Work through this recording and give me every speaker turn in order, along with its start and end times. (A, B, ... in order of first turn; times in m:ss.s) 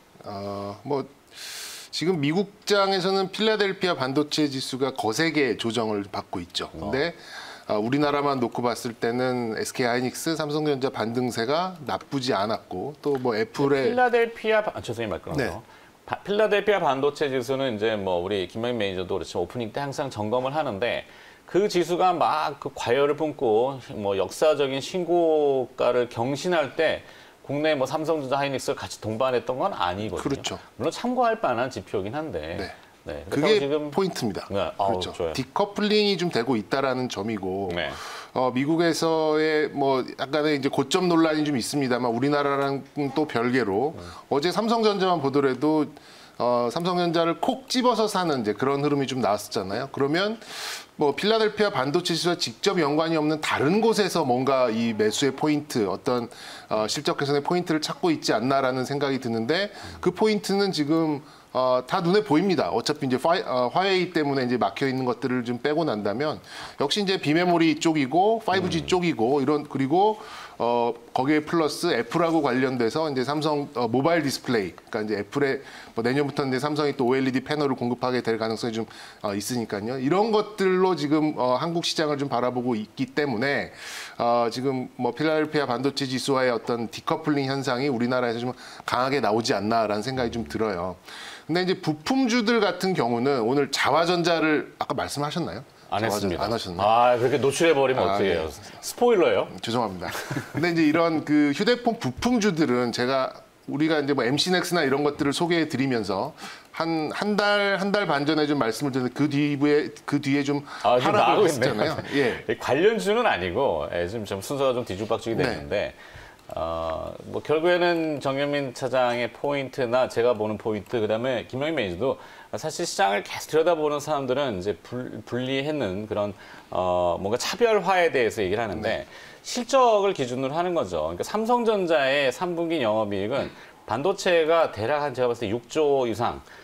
0:00.2-0:14.0 A
0:06.8-0:07.0 B
0:13.6-0:34.0 B
0:15.3-0:15.6 A
0:30.2-0:30.6 A
0:33.3-1:36.9 A
0:34.5-0:35.4 B
0:37.7-0:38.0 B
1:08.5-1:08.9 B
1:35.9-1:39.6 B
1:37.9-1:38.7 A
1:39.5-1:52.4 A
1:50.8-1:56.0 B
1:55.3-1:55.6 A
1:56.5-2:16.4 B